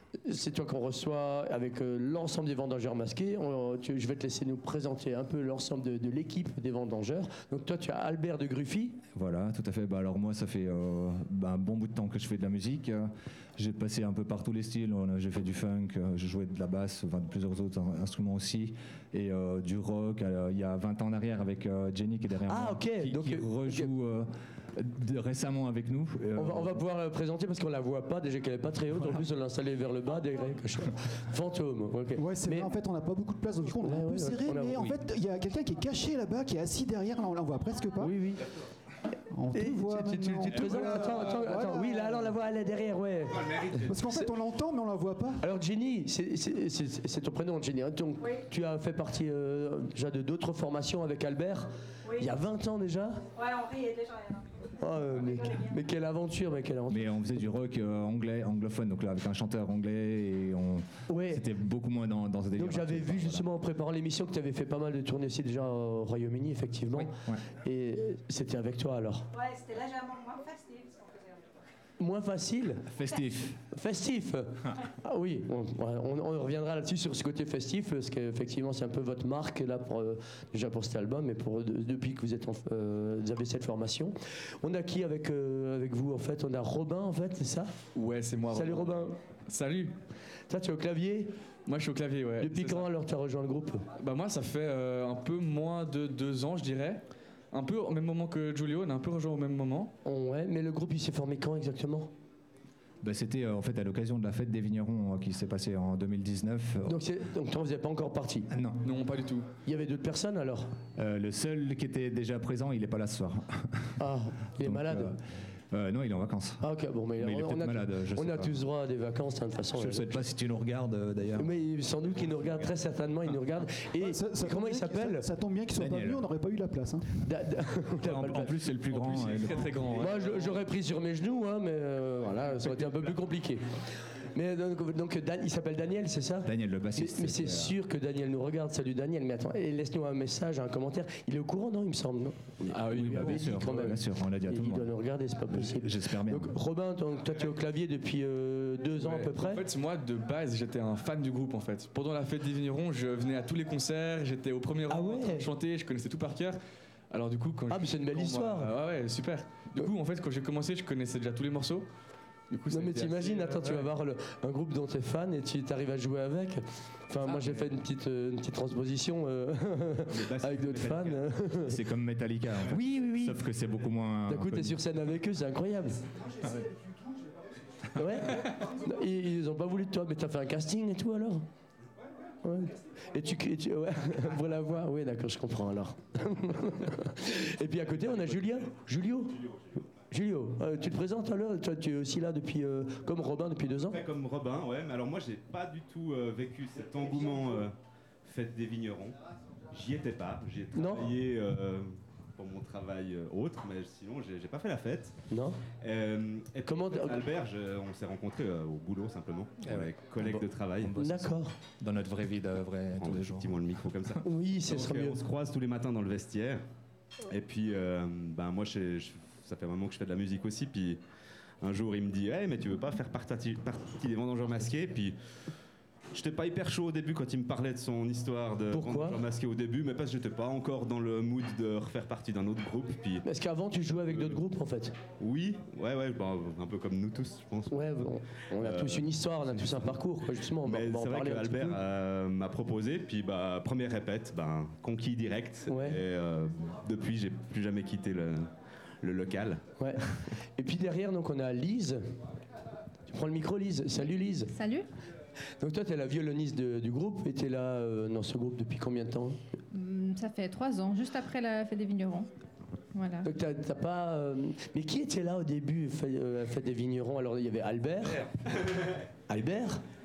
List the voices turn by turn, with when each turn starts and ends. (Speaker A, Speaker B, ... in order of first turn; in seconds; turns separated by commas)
Speaker A: 0.2-9.0, Speaker B: 9.1-26.8, Speaker A: 22.5-23.9, Speaker A: 26.4-32.7, Speaker B: 28.9-29.2, Speaker C: 32.1-38.1, Speaker A: 33.8-35.0, Speaker A: 38.0-38.5, Speaker C: 39.3-42.3, Speaker A: 39.5-44.2, Speaker C: 43.8-45.4, Speaker A: 45.4-53.2, Speaker D: 53.3-54.6, Speaker A: 54.8-57.1, Speaker D: 55.2-55.7, Speaker B: 56.9-63.5, Speaker A: 61.1-61.4, Speaker A: 62.6-69.3, Speaker B: 66.9-67.4, Speaker D: 69.3-71.4, Speaker A: 72.0-72.9, Speaker B: 72.9-73.6, Speaker A: 73.7-87.8, Speaker E: 87.9-90.0, Speaker A: 88.5-89.2, Speaker A: 90.5-91.3, Speaker E: 91.7-92.9, Speaker A: 92.4-93.8, Speaker E: 94.0-97.0, Speaker E: 97.5-99.9, Speaker A: 100.0-102.1, Speaker B: 103.0-107.0, Speaker A: 106.9-108.5, Speaker B: 108.5-108.8, Speaker E: 108.8-109.5, Speaker A: 109.7-110.7, Speaker B: 111.0-114.0, Speaker A: 114.0-115.2, Speaker B: 114.6-115.2, Speaker B: 115.7-116.6, Speaker A: 116.6-120.2, Speaker B: 117.2-118.7, Speaker B: 119.8-121.5, Speaker A: 121.4-125.3, Speaker C: 124.0-127.1, Speaker B: 125.7-126.2, Speaker A: 127.2-128.6, Speaker B: 128.0-130.1, Speaker E: 128.9-130.6, Speaker A: 129.9-133.7, Speaker A: 134.3-149.6, Speaker B: 136.4-137.8, Speaker E: 142.7-143.7, Speaker B: 142.9-144.9, Speaker B: 145.5-146.5, Speaker E: 149.0-156.6, Speaker A: 154.9-155.5, Speaker E: 157.1-161.8, Speaker A: 157.7-158.7, Speaker E: 162.5-163.9, Speaker A: 162.7-171.8, Speaker E: 167.3-167.6, Speaker F: 170.1-171.3, Speaker B: 171.7-174.8, Speaker A: 172.7-173.4, Speaker A: 174.3-176.0, Speaker A: 177.9-181.4, Speaker A: 182.4-189.4, Speaker F: 188.2-188.6, Speaker A: 190.1-194.0, Speaker F: 193.8-199.2, Speaker F: 199.7-205.2, Speaker A: 200.7-201.1, Speaker A: 205.3-205.6, Speaker F: 205.7-210.9, Speaker A: 206.6-207.2, Speaker B: 209.6-214.2, Speaker A: 211.0-211.5, Speaker F: 213.0-216.6, Speaker A: 214.2-215.2, Speaker F: 217.3-221.0, Speaker F: 221.6-225.2, Speaker F: 226.1-233.2, Speaker A: 228.7-229.2, Speaker A: 233.2-234.9, Speaker F: 234.1-234.4, Speaker F: 235.2-248.5, Speaker A: 237.7-241.8, Speaker A: 245.7-246.0, Speaker F: 249.0-249.7, Speaker A: 249.8-250.1, Speaker A: 250.6-252.0, Speaker A: 253.1-254.5, Speaker G: 254.5-254.9, Speaker A: 255.6-259.4, Speaker G: 259.7-262.3, Speaker G: 262.9-263.3, Speaker A: 263.2-268.3, Speaker A: 269.3-269.8